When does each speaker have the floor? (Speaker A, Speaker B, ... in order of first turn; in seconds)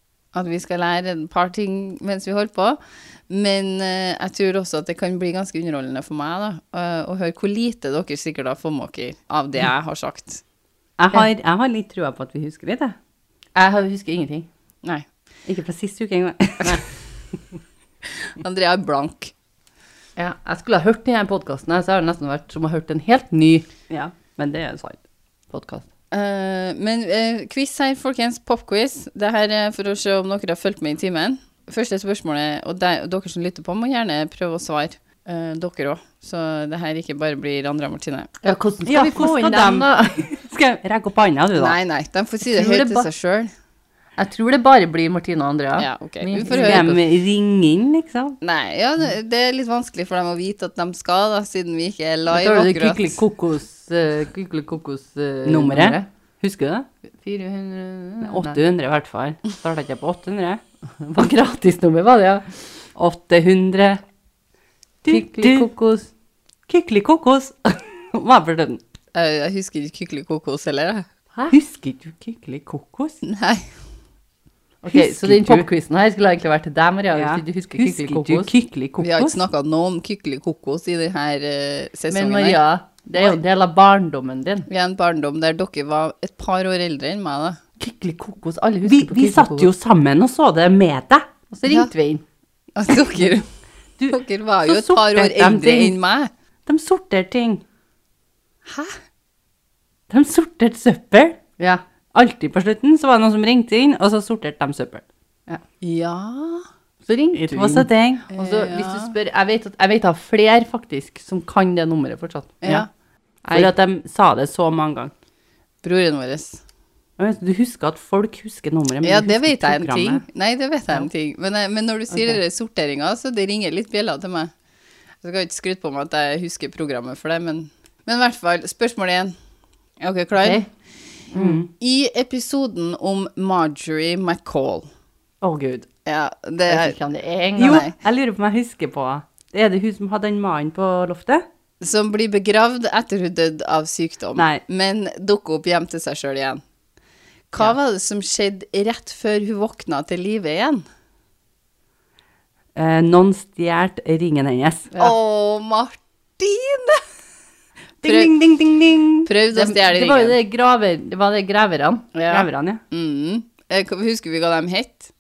Speaker A: 0.3-10.4, 18.3-19.3, 26.1-38.4, 41.6-43.5, 45.8-46.9, 48.4-53.2, 69.1-71.1, 73.2-73.7, 79.0-82.6, 84.7-87.6, 92.8-93.5, 94.1-96.3, 98.7-99.0, 105.8-106.7, 108.3-109.1, 112.6-112.9, 115.8-116.6, 119.0-124.5, 125.2-129.3, 130.0-130.7, 131.8-134.9, 136.1-137.0, 137.6-137.9, 141.8-146.6, 147.5-150.8, 154.9-157.0, 158.0-158.4, 159.2-160.4, 162.1-165.1
Speaker B: 11.0-12.9, 15.5-16.9, 23.9-25.0, 38.9-41.8, 46.5-48.4, 55.5-56.9, 58.2-60.6, 63.0-64.0, 65.0-65.7, 66.7-68.8, 71.5-73.2, 74.9-75.7, 77.1-79.4, 88.8-91.3, 94.0-96.0, 96.7-97.6, 100.1-101.4, 102.1-105.0, 107.3-108.2, 113.5-115.1, 117.2-120.2, 131.3-131.7, 135.4-135.9, 137.6-141.5, 144.4-144.6, 152.8-154.9, 158.0-159.3, 162.3-162.8
Speaker C: 13.6-14.5, 20.2-23.7, 25.5-25.9, 38.4-40.3, 42.4-43.1, 44.2-47.0, 52.3-56.1, 57.2-58.6, 61.0-62.7, 65.1-66.1, 74.8-78.5, 82.1-84.7, 87.8-89.7, 91.5-92.2, 107.0-112.7, 113.4-113.7, 130.4-130.7, 131.3-131.7, 136.7-137.8, 159.5-162.1